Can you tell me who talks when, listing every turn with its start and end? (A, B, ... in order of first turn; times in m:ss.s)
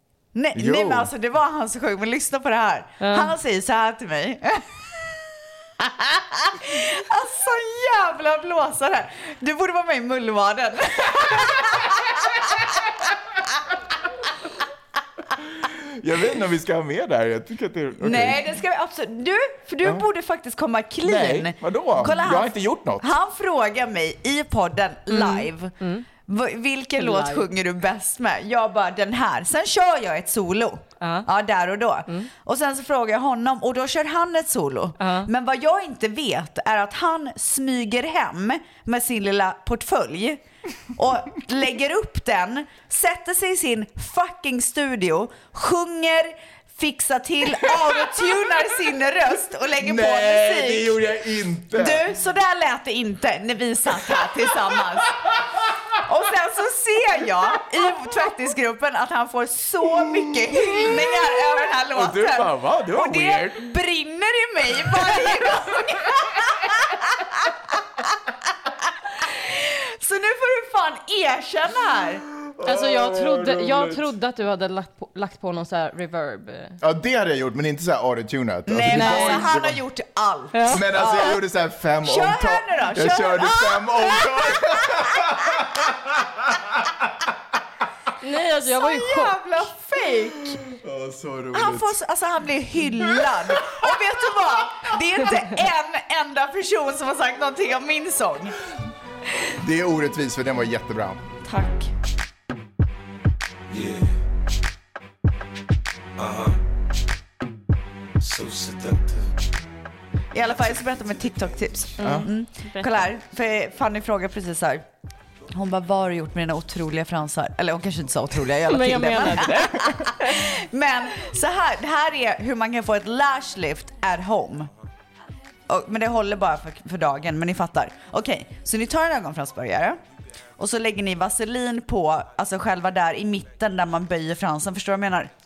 0:00.3-0:05.1 A
0:00.5-0:01.1 B
0:03.0-0:03.3 C
0:05.8-0:12.6 A
0:15.6-0:18.6 B
0:18.0-0:40.4 A
0:21.0-0:23.1 B
0:25.1-0:26.0 C
0:27.0-0:27.5 C
0:31.0-0:31.3 C
0:35.0-0:35.3 C
0:40.9-0:51.0 A
0:49.8-0:52.0 B
0:51.7-0:55.3 A
0:53.9-0:54.3 B
0:56.0-1:07.5 A
1:00.7-1:01.0 B
1:01.9-1:03.6 B
1:04.8-1:05.3 B
1:09.2-1:12.2 A
1:12.4-1:14.1 B
1:12.6-1:16.8 C
1:16.8-1:19.8 B
1:18.7-1:21.4 A
1:18.9-1:19.4 C
1:20.5-1:20.8 C
1:20.7-1:26.9 B
1:22.0-1:25.6 A
1:28.2-1:29.7 C
1:28.6-1:30.6 A
1:30.7-1:32.0 B
1:31.5-1:38.6 A
1:33.0-1:33.9 B
1:39.6-1:41.2 B
1:41.4-1:41.9 A
1:43.7-1:44.1 D
1:46.2-1:46.6 D
1:48.2-1:49.2 D
1:50.3-1:54.8 A
1:52.0-1:52.9 C
1:52.0-1:52.3 B
1:55.5-2:04.7 A
1:58.6-2:00.4 C
2:05.7-2:10.0 A
2:10.6-2:15.3 A